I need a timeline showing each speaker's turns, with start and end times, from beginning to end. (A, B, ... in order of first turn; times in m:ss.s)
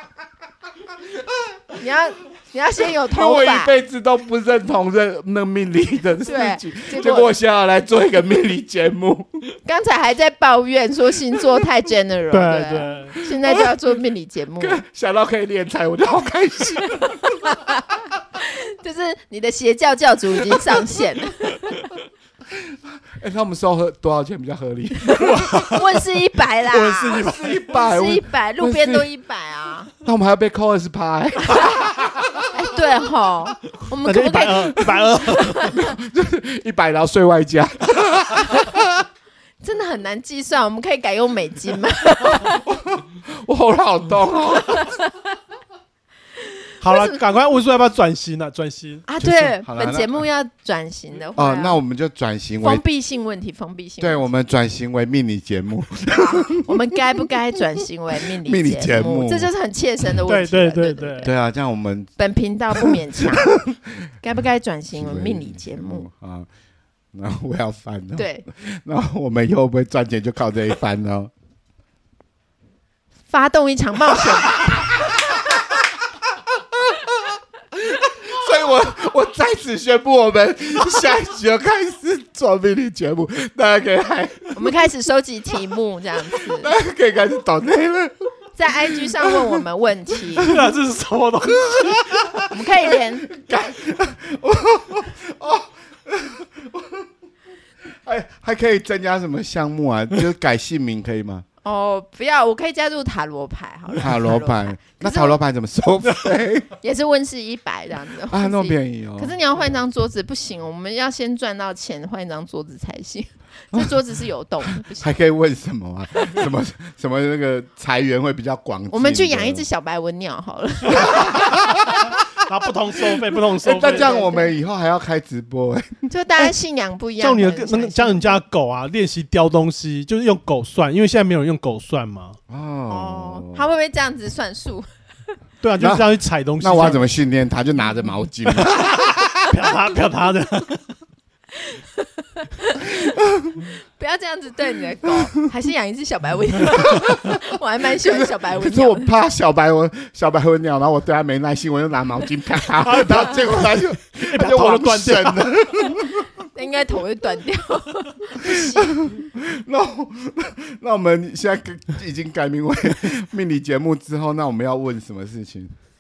0:01.8-0:03.7 A
0:03.1-0:09.6 B
0:06.2-0:07.3 A
0:09.6-0:14.8 A
0:12.3-0:13.2 C
0:14.6-0:17.5 B
0:17.1-0:21.9 A
0:22.5-0:25.6 B
0:25.1-0:29.9 A
0:25.2-0:25.9 C
0:26.7-0:27.6 C
0:27.1-0:29.1 B
0:30.0-0:32.5 B
0:32.5-0:36.0 A
0:34.0-0:35.7 C
0:35.6-0:39.0 B
0:39.6-0:42.6 A
0:42.4-0:44.9 B
0:44.7-0:45.0 A
0:46.8-0:49.3 C
0:46.8-0:47.2 A
0:49.1-0:51.8 A
0:49.6-0:50.1 B
0:51.4-0:52.8 B
0:52.6-0:54.3 A
0:54.0-0:56.7 B
0:56.1-1:01.3 A
0:58.4-0:59.5 B
1:00.3-1:01.3 C
1:01.2-1:02.1 B
1:02.2-1:03.6 A
1:02.8-1:03.9 B
1:04.2-1:06.1 A
1:04.9-1:06.5 B
1:07.1-1:11.3 B
1:08.2-1:08.4 A
1:13.3-1:15.0 A
1:14.3-1:15.6 B
1:16.6-1:24.8 B
1:24.5-1:26.7 A
1:26.3-1:29.4 B
1:28.6-1:30.6 A
1:30.4-1:32.4 C
1:31.5-1:37.1 B
1:32.5-1:33.3 A
1:38.0-1:41.4 B
1:41.6-1:45.4 A
1:44.0-1:46.7 B
1:46.8-1:55.1 A
1:48.3-1:49.4 B
1:55.0-1:59.7 B
1:58.9-2:01.5 A
2:00.9-2:02.1 B
2:02.4-2:04.2 C
2:03.1-2:06.0 B
2:03.7-2:04.6 A
2:06.1-2:08.4 A
2:07.2-2:12.4 C
2:12.5-2:13.6 B
2:12.9-2:14.9 A
2:15.6-2:17.1 C
2:15.8-2:16.1 B
2:16.6-2:19.5 B
2:19.4-2:20.9 C
2:21.6-2:23.1 A
2:23.0-2:23.7 B
2:23.9-2:29.1 A
2:26.9-2:27.4 B
2:28.0-2:36.3 B
2:32.7-2:35.6 C
2:36.5-2:39.1 A
2:38.4-2:45.7 B